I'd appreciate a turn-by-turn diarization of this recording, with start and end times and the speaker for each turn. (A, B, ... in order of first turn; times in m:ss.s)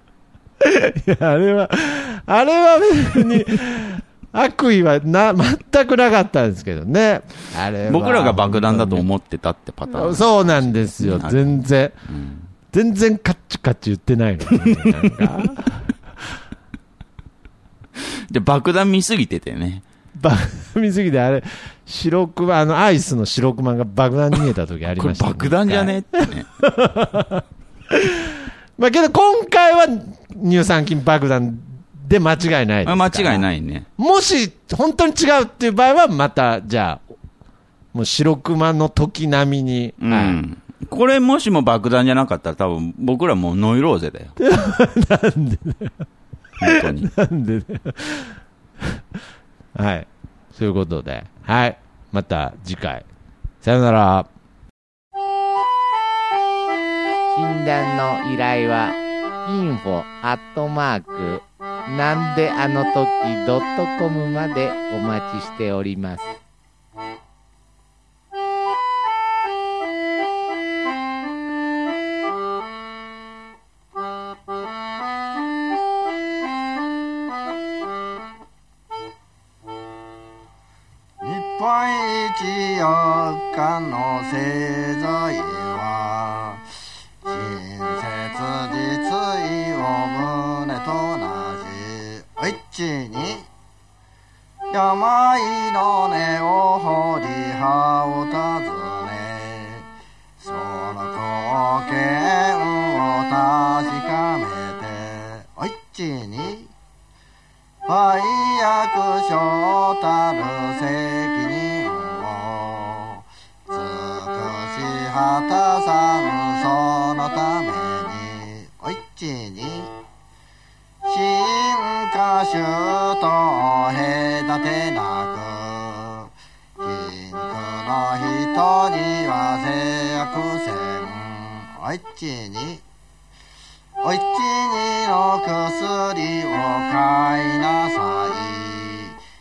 0:00.6-0:09.1 A
0:07.8-0:12.5 B
0:09.9-0:11.9 A
0:12.7-0:16.0 A
0:14.6-0:15.5 B
0:18.0-0:19.8 B
0:20.2-0:37.0 A
0:25.0-0:26.5 B
0:32.8-0:33.9 B
0:37.9-0:40.4 A
0:40.0-0:44.4 B
0:44.4-0:46.0 A
0:46.6-0:47.1 B
0:46.6-0:49.0 A
0:49.7-0:53.0 A
0:53.6-0:54.3 A
0:57.3-1:06.3 C
1:21.2-1:26.6 D
1:27.2-1:33.5 D
1:34.7-1:39.9 D
1:40.4-1:46.7 D
1:47.9-1:59.9 D
2:01.0-2:12.8 D
2:14.0-2:19.2 D